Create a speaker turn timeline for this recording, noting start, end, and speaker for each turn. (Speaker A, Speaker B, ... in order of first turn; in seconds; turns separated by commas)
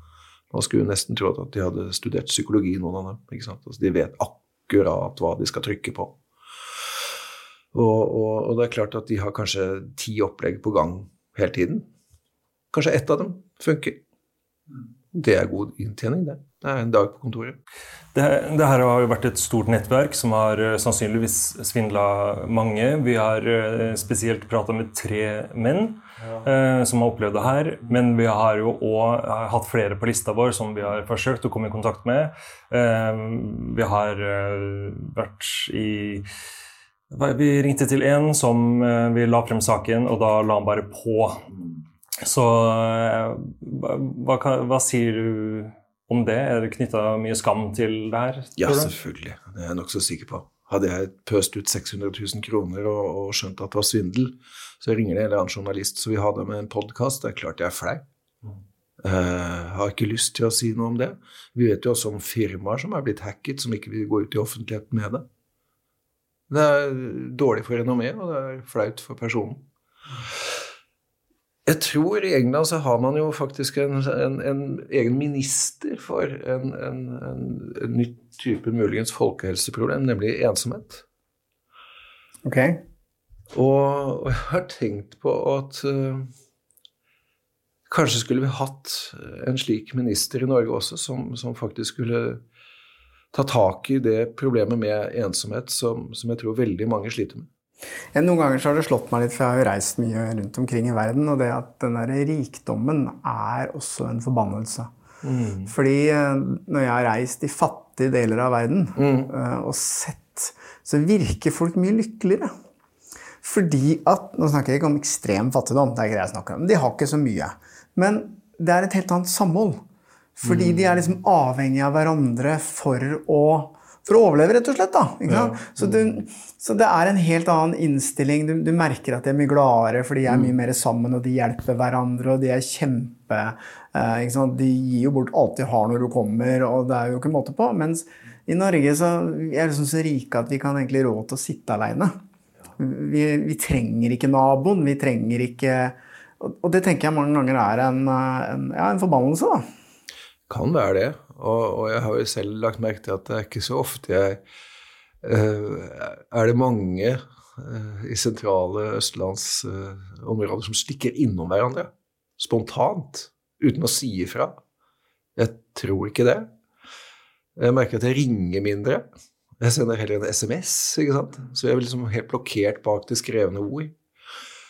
Speaker A: 0.5-6.2, Speaker A: 7.7-11.9, Speaker A: 12.7-14.0, Speaker A: 15.1-17.6, Speaker B: 18.1-36.3, Speaker A: 26.2-26.5, Speaker B: 37.1-41.5, Speaker B: 42.2-48.9, Speaker A: 48.6-58.0, Speaker A: 59.0-65.3, Speaker A: 66.5-69.7, Speaker A: 71.7-81.0, Speaker C: 82.5-82.8, Speaker A: 83.5-86.3, Speaker A: 87.9-92.4, Speaker A: 93.3-97.5, Speaker C: 98.2-104.9, Speaker A: 105.2-105.7, Speaker C: 105.7-112.5, Speaker A: 109.0-109.3, Speaker C: 113.4-119.8, Speaker C: 120.4-142.2, Speaker A: 120.5-121.0, Speaker A: 125.3-126.1, Speaker A: 130.3-130.5, Speaker C: 142.8-149.7, Speaker A: 150.5-154.4, Speaker A: 155.2-164.6, Speaker A: 165.4-166.5, Speaker A: 167.6-169.1, Speaker A: 169.6-174.0